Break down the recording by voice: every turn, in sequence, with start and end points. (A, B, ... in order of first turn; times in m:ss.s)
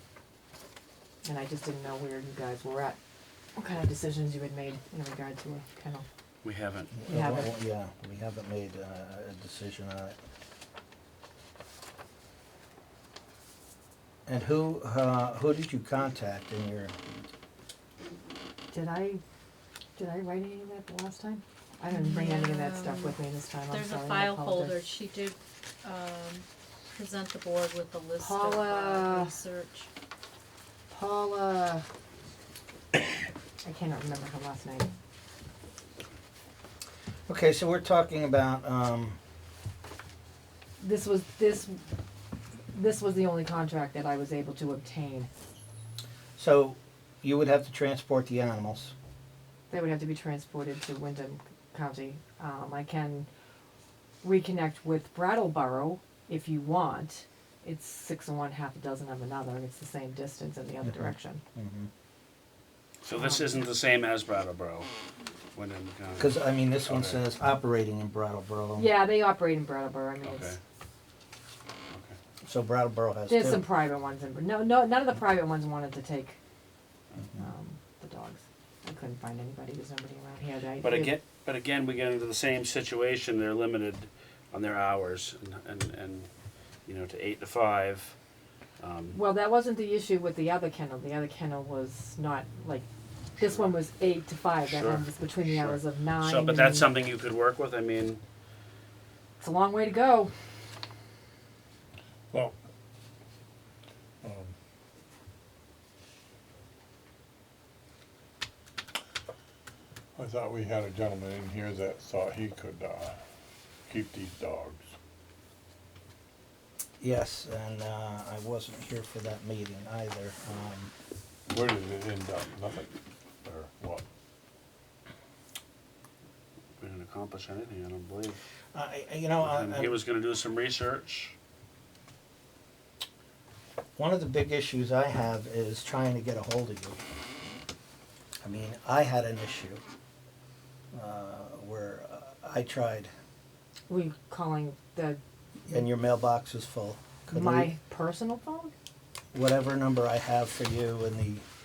0:01.2-0:03.0 A
0:03.6-0:06.0 A
0:06.4-0:06.9 B
0:06.9-0:10.2 C
0:07.1-0:07.5 A
0:14.3-0:16.9 C
0:18.7-0:19.2 A
0:20.0-0:24.8 A
0:21.9-0:29.9 D
0:28.2-0:29.3 A
0:30.9-0:31.8 A
0:33.6-0:34.9 A
0:37.3-0:39.2 C
0:40.8-0:41.8 A
0:42.7-0:45.3 A
0:46.4-0:48.9 C
0:49.7-0:53.3 A
0:54.2-1:01.4 A
1:00.8-1:01.9 C
1:03.0-1:04.9 B
1:03.1-1:03.6 A
1:05.5-1:07.2 B
1:06.2-1:08.9 C
1:08.8-1:10.5 A
1:10.2-1:10.6 B
1:11.9-1:12.2 B
1:12.4-1:13.6 C
1:13.3-1:16.4 A
1:17.4-1:21.1 A
1:20.8-1:26.3 B
1:26.8-1:28.2 B
1:28.8-1:29.2 B
1:29.1-1:32.9 A
1:33.4-1:36.9 A
1:34.6-1:38.2 B
1:39.4-1:40.3 A
1:44.2-1:44.5 E
1:50.2-1:53.2 E
1:53.9-1:54.9 E
1:57.0-2:00.9 C
2:01.5-2:02.9 E
2:03.4-2:04.0 E
2:06.8-2:08.4 B
2:08.7-2:10.0 C
2:09.4-2:11.3 B
2:14.0-2:17.0 C
2:18.4-2:19.8 C
2:20.9-2:23.1 C
2:23.9-2:25.8 A
2:25.6-2:27.7 C
2:27.3-2:28.7 A
2:29.3-2:31.4 C